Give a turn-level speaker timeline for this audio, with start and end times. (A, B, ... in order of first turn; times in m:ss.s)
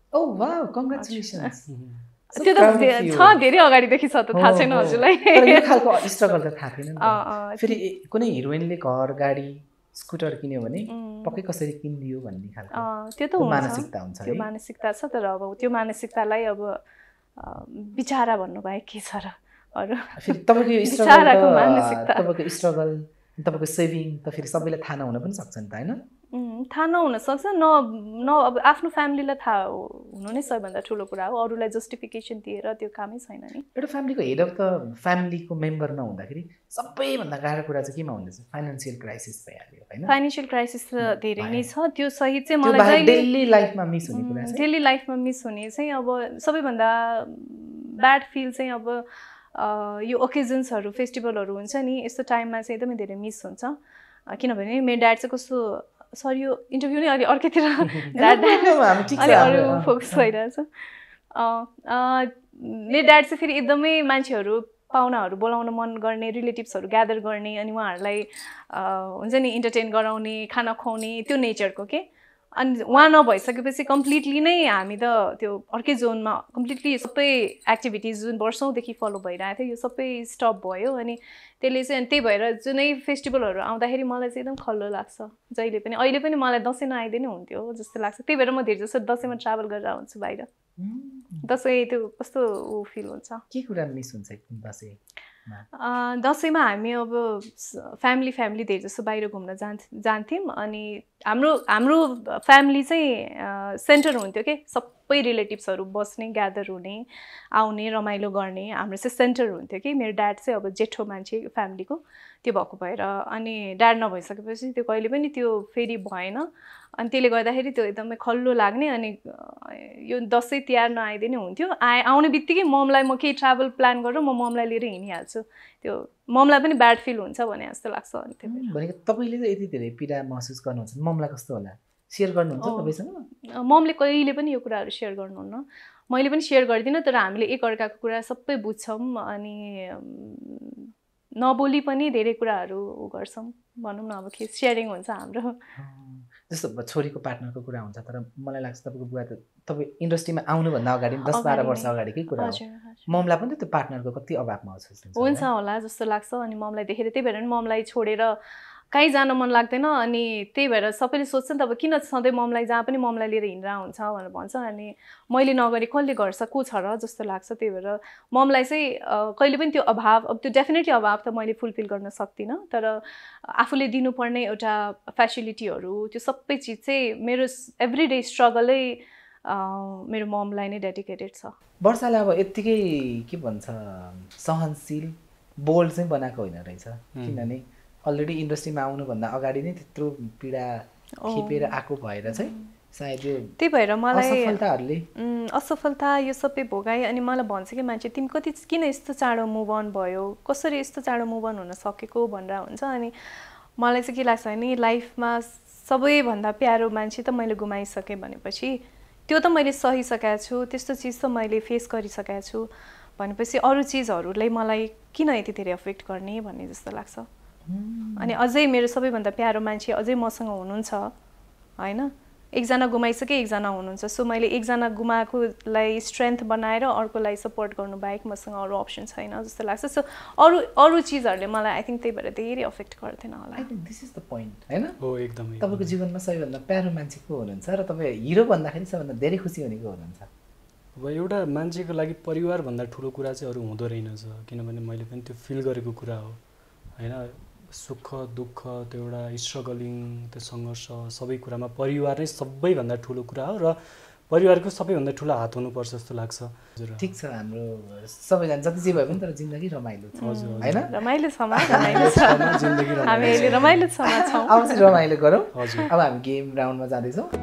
0:00.1-0:01.6 A
0:01.0-0:01.5 B
0:01.7-0:02.0 C
0:02.3-0:03.4 A
0:02.3-0:05.9 B
0:04.3-0:12.8 A
0:07.0-0:07.8 B
0:10.9-0:11.4 B
0:12.7-0:16.8 B
0:13.4-0:14.5 A
0:17.4-0:22.3 B
0:20.2-0:26.0 A
0:26.3-0:33.6 B
0:33.7-0:40.1 A
0:40.0-0:43.3 B
0:41.4-0:41.6 A
0:42.6-0:44.6 A
0:44.1-0:53.8 B
0:54.3-1:00.7 B
0:58.2-1:00.3 A
0:59.0-0:59.4 C
1:01.3-1:12.0 B
1:12.6-1:30.5 B
1:30.8-1:31.5 A
1:31.4-1:33.4 B
1:33.5-1:35.6 A
1:35.8-2:08.7 B
2:08.5-2:13.2 A
2:12.6-2:12.9 B
2:13.5-2:25.6 B
2:25.8-2:35.5 A
2:31.3-2:33.0 B
2:35.2-2:38.4 B
2:38.9-3:01.5 B
3:01.8-3:13.5 A
3:07.1-3:07.4 C
3:11.2-3:11.7 B
3:13.6-3:14.6 B
3:14.1-3:15.0 A
3:15.2-3:23.1 B
3:23.8-3:37.3 B
3:37.7-3:38.4 A
3:38.2-3:41.1 B
3:41.8-3:53.7 B
3:53.6-3:55.0 A
3:55.0-3:55.9 C
3:55.6-4:00.3 A
4:01.0-4:06.4 C
4:07.0-4:13.8 C
4:14.3-4:17.1 C
4:17.0-4:20.9 A
4:20.2-4:24.8 B
4:20.2-4:20.9 C
4:21.6-4:22.5 A
4:21.6-4:23.9 C
4:23.2-4:27.3 A
4:25.5-4:25.9 C